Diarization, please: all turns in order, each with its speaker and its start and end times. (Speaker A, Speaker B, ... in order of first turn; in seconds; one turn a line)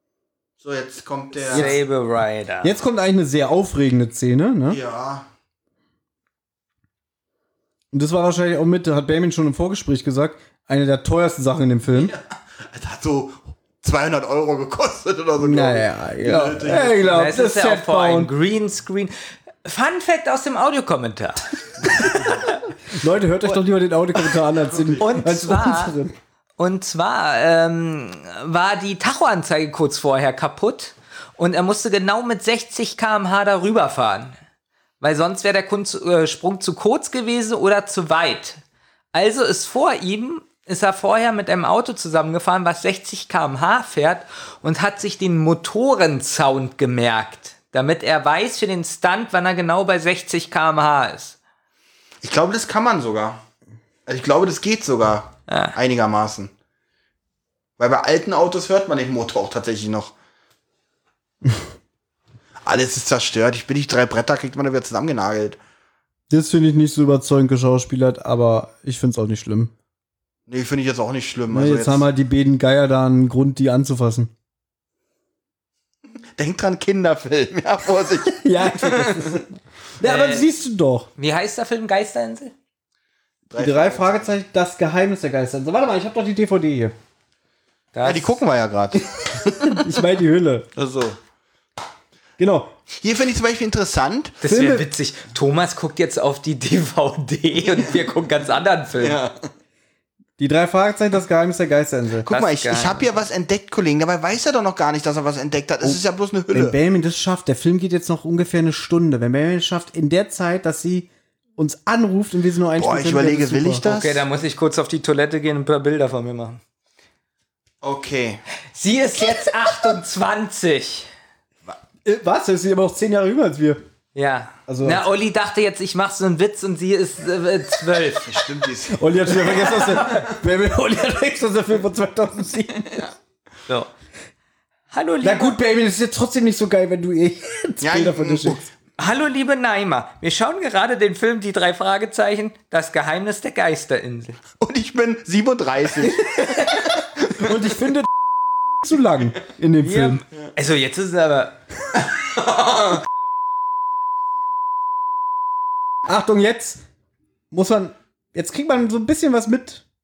Speaker A: 0.6-1.8
Speaker B: 1.4-2.7
Speaker C: 1.5-1.8
Speaker C: 2.6-4.8
Speaker A: 4.7-5.3
Speaker C: 7.9-12.2
Speaker A: 11.9-17.2
Speaker C: 15.4-18.3
Speaker B: 17.1-19.1
Speaker B: 19.6-22.5
Speaker C: 22.9-26.1
Speaker A: 24.7-25.0
Speaker B: 25.0-25.9
Speaker B: 26.6-34.4
Speaker B: 35.0-38.6
Speaker B: 39.1-51.4
Speaker A: 52.2-53.4
Speaker A: 54.1-56.5
Speaker B: 55.5-55.8
Speaker A: 57.8-60.1
Speaker A: 62.6-65.6
Speaker C: 66.3-69.7
Speaker A: 70.5-72.1
Speaker C: 71.5-74.3
Speaker A: 76.4-79.4
Speaker C: 78.4-81.1
Speaker B: 80.0-80.5
Speaker B: 81.2-82.5
Speaker A: 83.5-84.3
Speaker C: 83.6-86.9
Speaker B: 87.9-88.4
Speaker A: 88.0-89.8
Speaker C: 89.6-90.7
Speaker A: 90.8-91.2
Speaker C: 92.4-92.7
Speaker A: 93.0-94.4
Speaker B: 94.4-99.2
Speaker C: 94.4-94.9
Speaker A: 99.0-99.5
Speaker C: 100.4-102.3
Speaker A: 102.2-106.8
Speaker B: 102.3-103.1
Speaker C: 106.5-113.8
Speaker A: 112.8-114.2
Speaker B: 113.8-116.6
Speaker A: 117.8-118.4
Speaker B: 118.7-121.1
Speaker C: 122.0-123.8
Speaker B: 124.2-128.4
Speaker C: 124.7-125.0
Speaker A: 128.2-129.7
Speaker C: 128.9-133.1
Speaker B: 134.9-135.6
Speaker C: 135.2-138.7
Speaker A: 137.8-138.6
Speaker B: 139.0-144.4
Speaker A: 144.6-147.5
Speaker B: 146.4-146.8
Speaker C: 146.8-148.3
Speaker C: 148.8-150.2
Speaker B: 149.8-151.6
Speaker A: 152.2-153.1
Speaker A: 154.9-155.6
Speaker C: 156.1-156.8
Speaker C: 157.5-159.8